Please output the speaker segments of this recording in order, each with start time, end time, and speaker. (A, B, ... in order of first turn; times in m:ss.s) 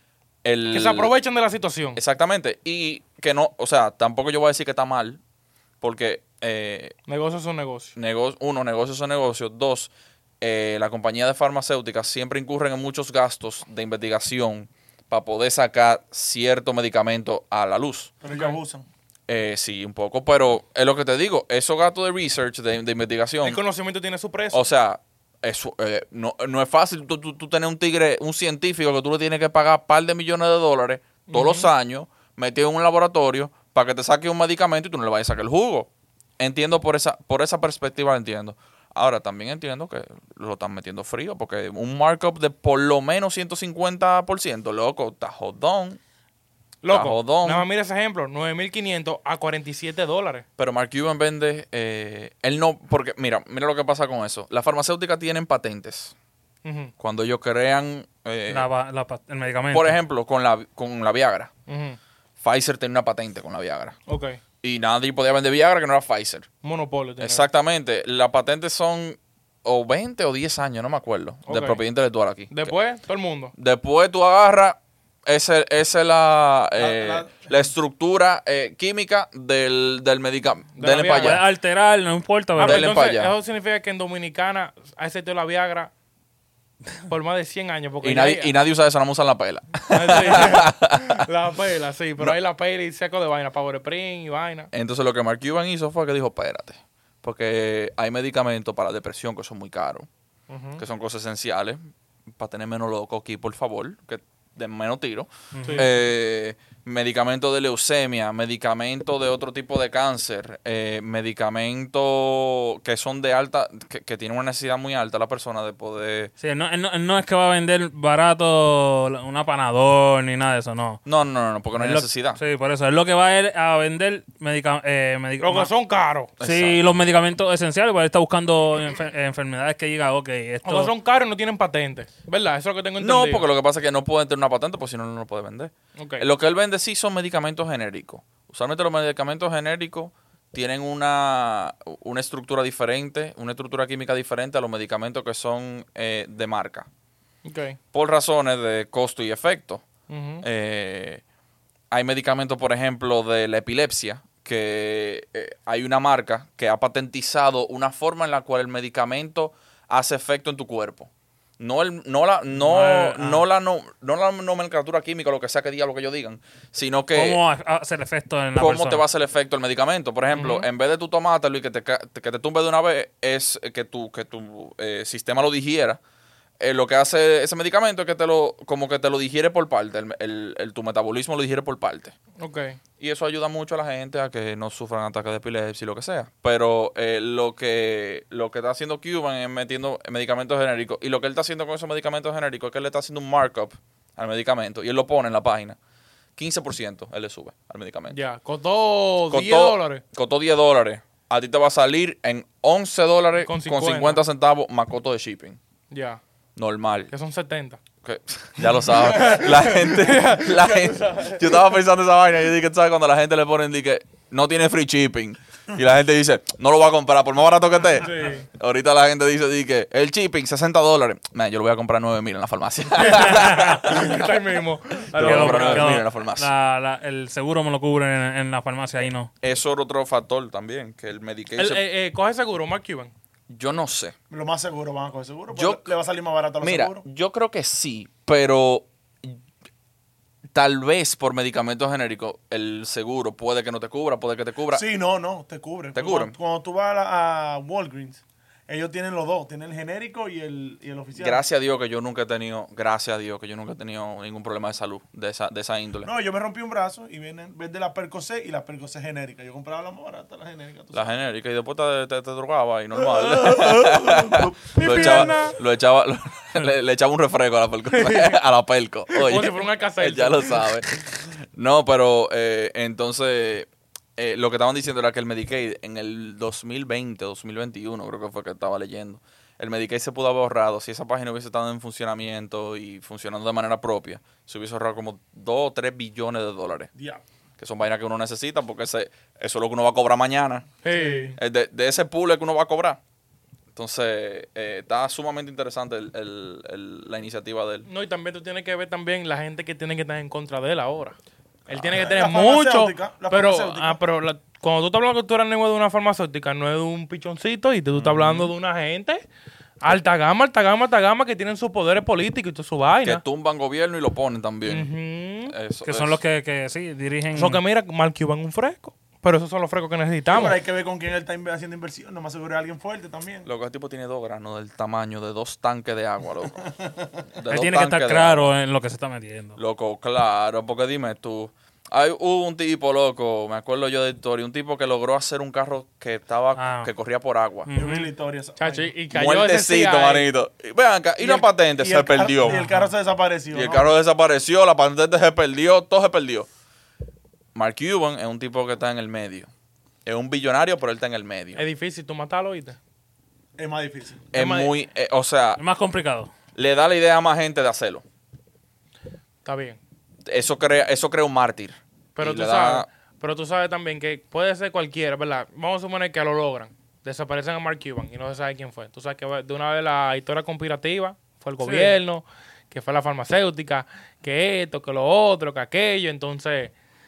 0:00.4-0:01.1 A
0:00.7-0:02.0 B
0:01.9-0:05.2 A
0:05.8-0:07.0 A
0:07.1-0:07.9 B
0:07.9-0:18.1 A
0:18.2-0:18.8 C
0:18.3-0:18.6 B
0:19.3-0:23.6 A
0:23.4-0:24.6 B
0:24.5-0:46.0 A
0:31.3-0:31.7 B
0:46.8-0:50.4 B
0:46.9-0:47.6 A
0:50.6-0:56.1 A
0:56.6-0:56.9 B
0:57.0-0:58.7 A
0:58.5-1:00.0 D
0:59.7-1:01.5 A
1:01.7-1:02.0 B
1:02.4-1:04.0 A
1:04.1-1:04.4 B
1:04.6-1:06.5 A
1:06.6-1:07.4 B
1:07.2-1:12.7 A
1:11.4-1:11.8 B
1:12.5-1:13.5 B
1:13.5-1:21.4 A
1:16.8-1:17.3 C
1:20.8-1:21.4 B
1:21.2-1:23.0 D
1:22.6-1:23.3 A
1:22.6-1:25.9 B
1:27.1-1:28.5 B
1:28.0-1:31.2 A
1:29.9-1:34.7 B
1:34.7-1:40.1 A
1:40.5-1:40.8 B
1:40.8-1:41.8 A
1:42.3-1:56.3 A
1:45.5-1:45.9 D
1:56.4-2:01.0 D
2:01.0-2:02.4 A
2:01.7-2:05.7 D
2:05.4-2:06.3 B
2:06.4-2:06.8 A
2:06.4-2:10.9 D
2:10.6-2:13.4 B
2:13.0-2:26.9 A
2:16.0-2:16.2 B
2:27.4-2:27.8 B
2:27.9-2:29.8 A
2:30.1-2:30.4 B
2:30.4-2:31.2 A
2:31.9-2:47.4 A
2:42.6-2:43.4 D
2:42.7-2:43.2 B
2:47.1-2:49.0 D
2:48.6-2:56.0 A
2:50.3-2:50.6 B
2:56.6-3:02.2 A
3:02.4-3:02.8 B
3:03.0-3:15.8 A
3:16.4-3:18.2 A
3:18.1-3:20.0 B
3:19.3-3:25.6 A
3:23.4-3:24.2 B
3:25.9-3:26.2 B
3:26.6-3:27.1 A
3:27.1-3:27.8 B
3:28.0-3:44.2 A
3:29.0-3:31.6 B
3:38.0-3:38.4 B
3:42.9-3:46.0 B
3:45.1-3:46.5 A
3:45.1-3:49.3 D
3:49.4-3:51.8 A
3:51.5-3:53.1 B
3:53.5-3:54.1 A
3:54.3-3:57.0 C
3:55.5-3:55.9 A
3:56.6-3:59.4 A
4:00.5-4:04.8 A
4:04.7-4:11.4 C
4:05.9-4:06.3 A
4:11.2-4:16.1 A
4:16.0-4:21.1 C
4:20.9-4:46.9 A
4:23.0-4:25.4 C
4:24.7-4:25.5 B
4:27.9-4:28.4 B
4:29.2-4:30.6 B
4:46.9-4:47.2 C
4:47.6-4:50.7 A
4:50.8-4:51.4 B
4:51.4-4:53.0 A
4:53.7-4:57.9 A
4:57.8-5:01.2 B
5:01.7-5:09.2 B
5:01.7-5:04.0 C
5:01.7-5:02.0 A
5:08.0-5:08.5 A
5:09.8-5:13.2 B
5:13.0-5:14.9 A
5:14.6-5:15.5 B
5:15.4-5:16.2 A
5:15.8-5:17.6 D
5:17.3-5:20.6 B
5:20.3-5:23.4 C
5:23.4-5:26.6 A
5:26.6-5:27.2 C
5:27.4-5:28.5 A
5:27.5-5:29.6 D
5:29.6-5:37.7 A
5:36.6-5:36.9 D
5:37.7-5:38.1 D
5:37.7-5:38.9 C
5:38.6-5:40.3 B
5:39.1-5:42.6 A
5:41.2-5:43.9 C
5:42.5-5:42.9 D
5:43.5-5:46.5 A
5:47.5-5:49.5 A
5:50.0-5:51.6 A
5:51.5-5:52.8 B
5:53.6-5:54.3 C
5:54.3-5:55.6 A
5:54.3-5:54.7 B
5:55.6-5:56.3 D
5:56.5-5:58.0 A
5:59.4-5:59.8 B
6:00.3-6:02.9 A
6:02.2-6:16.7 B
6:11.6-6:11.9 D